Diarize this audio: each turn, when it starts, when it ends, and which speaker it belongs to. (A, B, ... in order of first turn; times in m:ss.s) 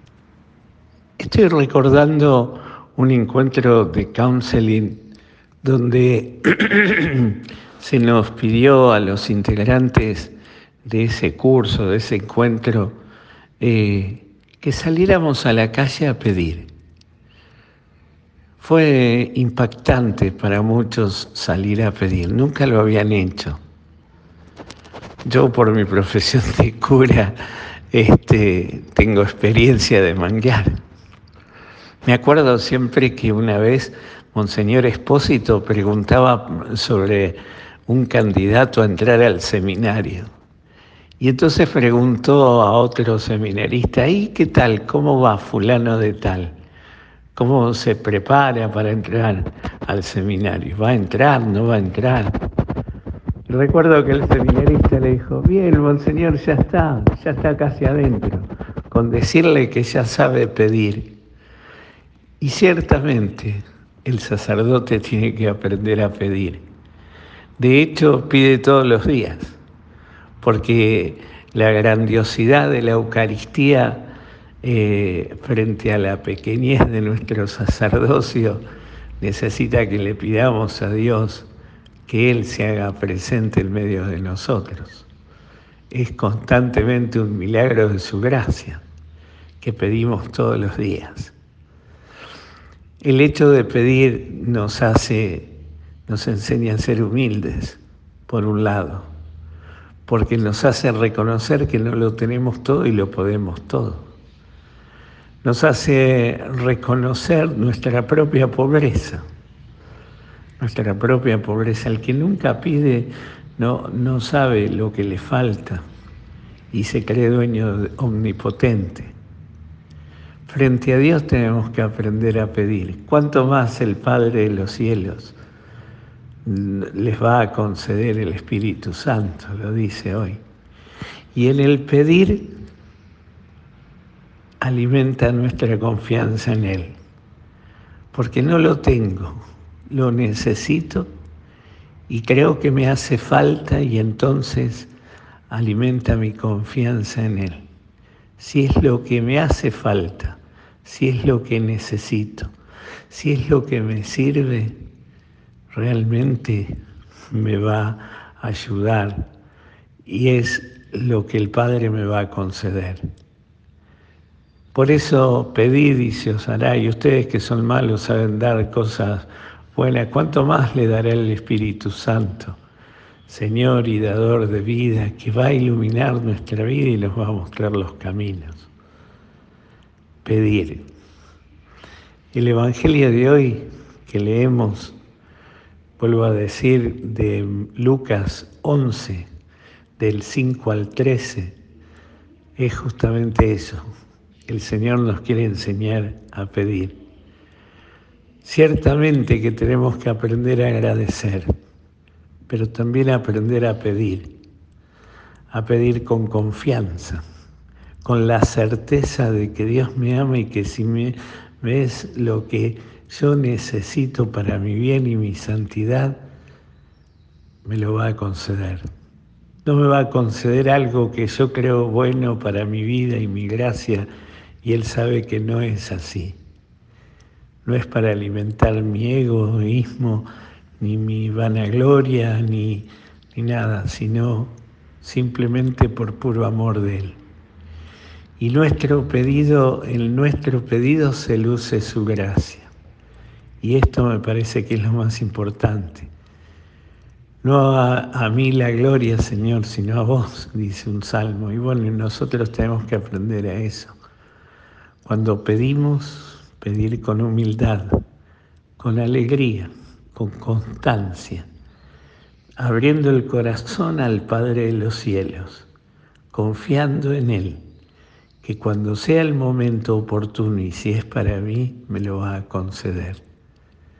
0:01.2-0:05.0 A
0:05.6-0:13.0 A
0:13.6-0:16.7 A
0:18.6-0:23.6 A
0:25.2-0:27.4 A
0:27.9-0:30.8 A
0:32.0-0:40.3 A
0:41.2-0:46.5 A
0:47.3-0:52.4 A
0:53.5-1:01.2 A
1:02.4-1:06.6 A
1:07.6-1:09.6 A
1:10.4-1:14.1 A
1:14.6-1:18.6 A
1:19.2-1:21.5 A
1:22.1-1:25.1 A
1:25.9-1:28.8 A
1:29.6-1:31.3 A
1:33.0-1:39.1 A
1:40.0-1:44.1 A
1:45.4-1:49.2 A
1:50.6-1:55.8 A
1:56.7-1:59.1 A
2:00.4-2:05.4 A
2:06.4-2:10.4 A
2:11.3-2:12.5 A
2:14.6-2:17.0 A
2:18.1-2:21.1 A
2:22.1-2:24.9 A
2:25.5-2:27.6 A
2:28.4-2:32.5 A
2:33.1-2:34.8 A
2:35.7-2:36.8 A
2:37.3-2:39.3 A
2:40.0-2:43.0 A
2:44.7-2:52.6 A
2:53.3-2:58.7 A
3:00.2-3:00.8 A
3:02.3-3:05.0 A
3:06.0-3:09.3 A
3:10.0-3:11.6 A
3:12.6-3:13.8 A
3:14.4-3:17.0 A
3:18.4-3:21.5 A
3:22.5-3:24.3 A
3:25.5-3:27.2 A
3:28.0-3:36.2 A
3:37.6-3:38.8 A
3:39.6-3:44.1 A
3:44.6-3:46.4 A
3:47.6-3:50.3 A
3:50.8-3:57.2 A
3:58.4-4:02.7 A
4:03.6-4:06.1 A
4:07.4-4:13.9 A
4:15.0-4:18.0 A
4:18.8-4:21.4 A
4:22.6-4:25.7 A
4:26.3-4:27.6 A
4:28.4-4:33.2 A